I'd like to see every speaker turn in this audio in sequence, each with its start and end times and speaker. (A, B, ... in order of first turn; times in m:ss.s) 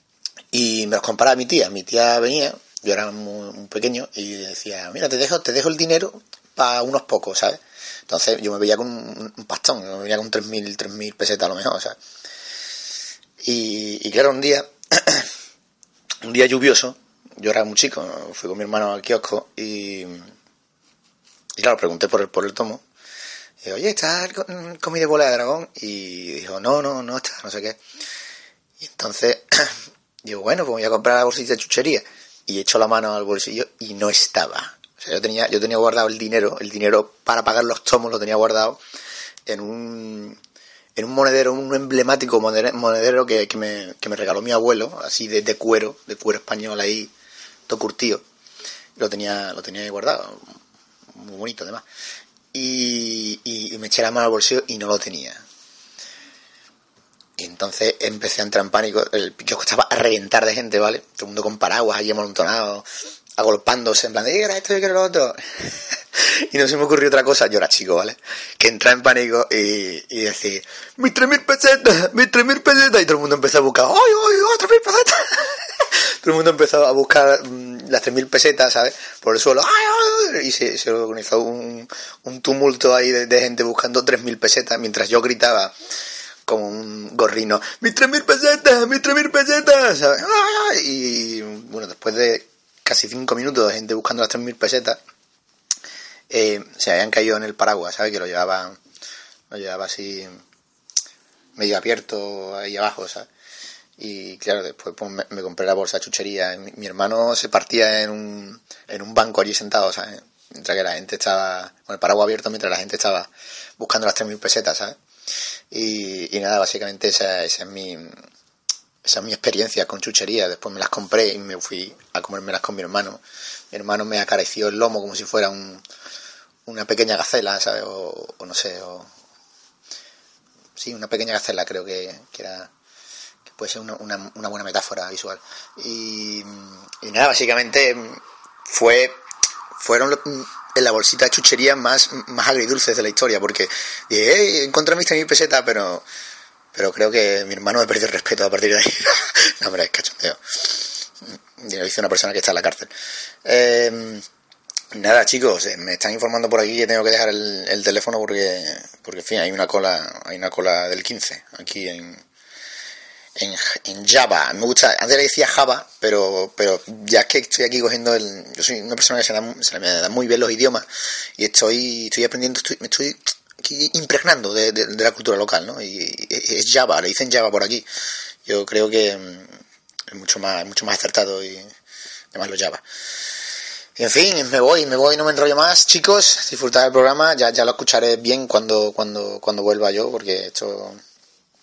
0:00.5-0:12.0 A
0:13.4-0:15.3 A
0:16.2-0:20.3 A
0:21.6-0:22.8 A
0:23.6-0:27.8 A
0:28.8-0:38.8 A
0:39.5-0:40.4 A
0:41.0-0:47.1 A
0:47.7-0:48.2 A
0:49.0-0:50.5 A
0:51.2-0:51.8 A
0:52.5-0:55.4 A
0:57.4-1:02.9 A
1:03.4-1:25.8 A
1:26.5-1:35.0 A
1:36.3-1:38.8 A
1:39.5-1:40.4 A
1:41.6-1:43.3 A
1:44.0-1:55.0 A
1:55.7-1:58.2 A
1:59.0-2:03.2 A
2:03.7-2:05.8 A
2:06.7-2:09.1 A
2:10.8-2:12.7 A
2:13.5-2:19.2 A
2:19.8-2:26.0 A
2:26.7-2:32.9 A
2:33.4-2:34.2 A
2:34.9-2:42.2 A
2:43.4-2:57.9 A
2:58.4-2:59.5 A
3:00.1-3:01.7 A
3:02.3-3:02.8 A
3:04.0-3:11.0 A